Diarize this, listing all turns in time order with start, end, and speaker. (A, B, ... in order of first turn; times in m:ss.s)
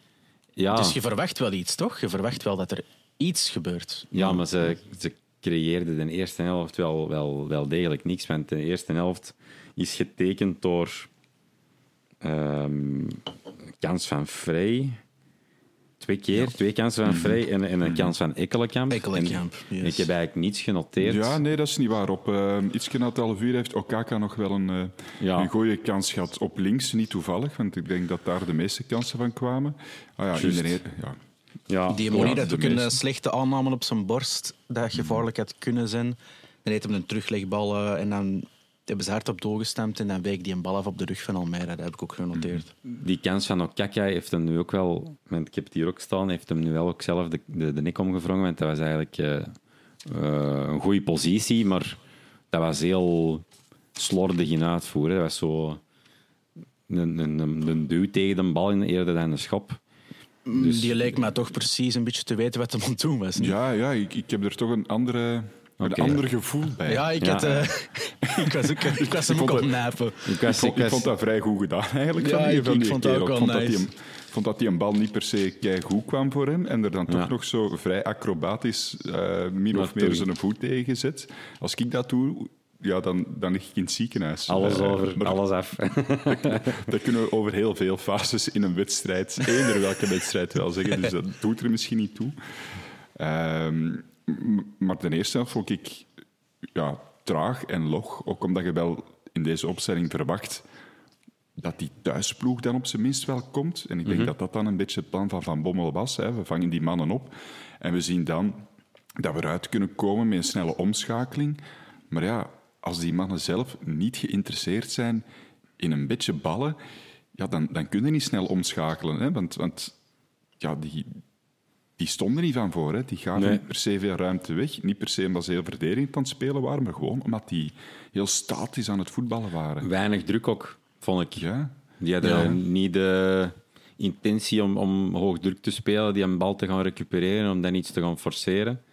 0:00.6-0:01.0 A
0:00.7-0:04.4 B
0:04.1-0:11.1 A
0:12.2-0:13.2 A
0:13.8-0:15.0 A
0:16.0-0:21.4 A
0:17.1-0:18.1 C
0:18.9-0:20.1 B
0:21.0-0:31.2 C
0:25.2-0:25.5 A
0:30.3-0:30.8 A
0:31.7-0:32.4 A
0:31.9-0:42.7 B
0:32.1-0:33.0 C
0:34.9-0:35.2 C
0:42.3-0:42.6 C
0:42.8-0:52.0 A
0:52.5-0:53.4 A
0:54.0-0:55.8 A
0:56.9-0:59.8 A
1:00.4-1:03.5 B
1:00.5-1:01.2 A
1:03.4-1:07.5 C
1:05.8-1:06.2 A
1:06.9-1:10.3 B
1:07.2-1:07.7 A
1:08.9-1:09.7 C
1:10.2-1:11.1 A
1:10.4-1:25.4 C
1:12.2-1:13.8 B
1:19.7-1:20.3 A
1:24.5-1:26.9 A
1:26.3-1:36.1 C
1:36.7-1:40.6 C
1:41.6-1:48.6 C
1:44.1-1:44.3 A
1:49.2-1:55.2 C
1:55.8-1:56.8 C
1:57.4-1:59.9 C
2:00.6-2:01.2 C
2:02.0-2:09.9 C
2:03.4-2:03.6 A
2:09.8-2:11.4 A
2:11.4-2:11.8 C
2:12.0-2:18.8 A